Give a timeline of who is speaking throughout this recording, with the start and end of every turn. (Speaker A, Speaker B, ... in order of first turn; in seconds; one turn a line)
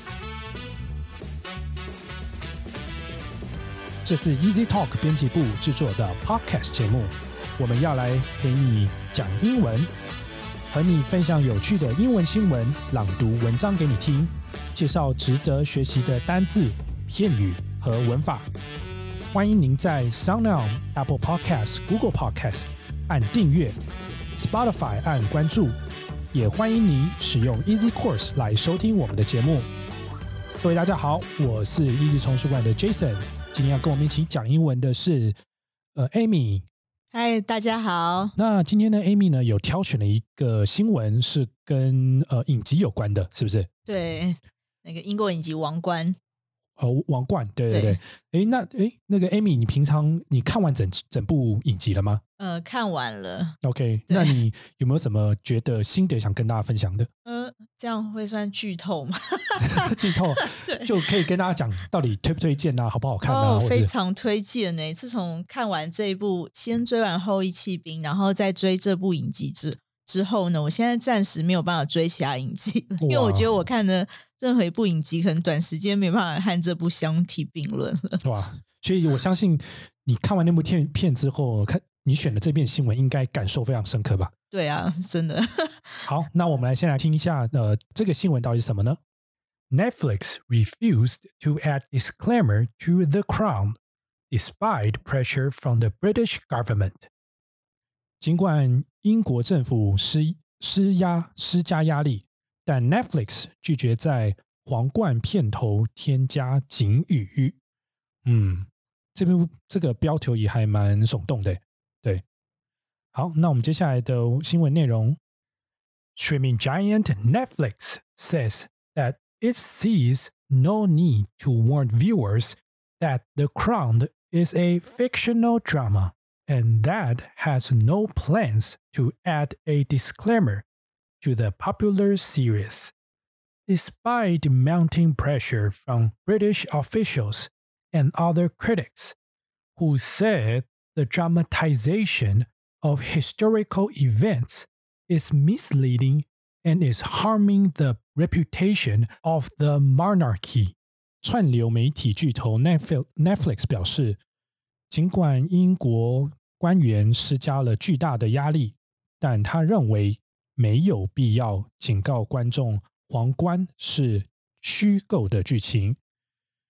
Speaker A: 4.0-9.9
Speaker A: 10.7-18.5
Speaker A: 19.3-23.8
Speaker A: 24.4-25.8
Speaker A: 26.3-29.7
Speaker A: 30.6-35.4
Speaker A: 36.0-36.6
Speaker B: 37.1-38.4
Speaker A: 38.4-43.7
Speaker B: 43.9-46.2
Speaker A: 46.8-52.2
Speaker B: 47.7-48.0
Speaker B: 52.4-53.6
Speaker A: 53.6-57.1
Speaker B: 54.1-54.4
Speaker B: 57.2-61.1
Speaker A: 59.6-63.9
Speaker B: 63.2-78.2
Speaker A: 73.0-73.5
Speaker A: 78.2-84.3
Speaker B: 84.5-86.1
Speaker A: 86.1-89.0
Speaker A: 89.7-93.8
Speaker A: 94.3-97.1
Speaker A: 98.2-107.6
Speaker A: 108.2-112.2
Speaker A: 113.1-115.2
Speaker A: 116.2-130.7
Speaker A: 131.2-132.9
Speaker A: 133.7-139.2
Speaker A: 139.8-154.2
Speaker A: 154.9-166.0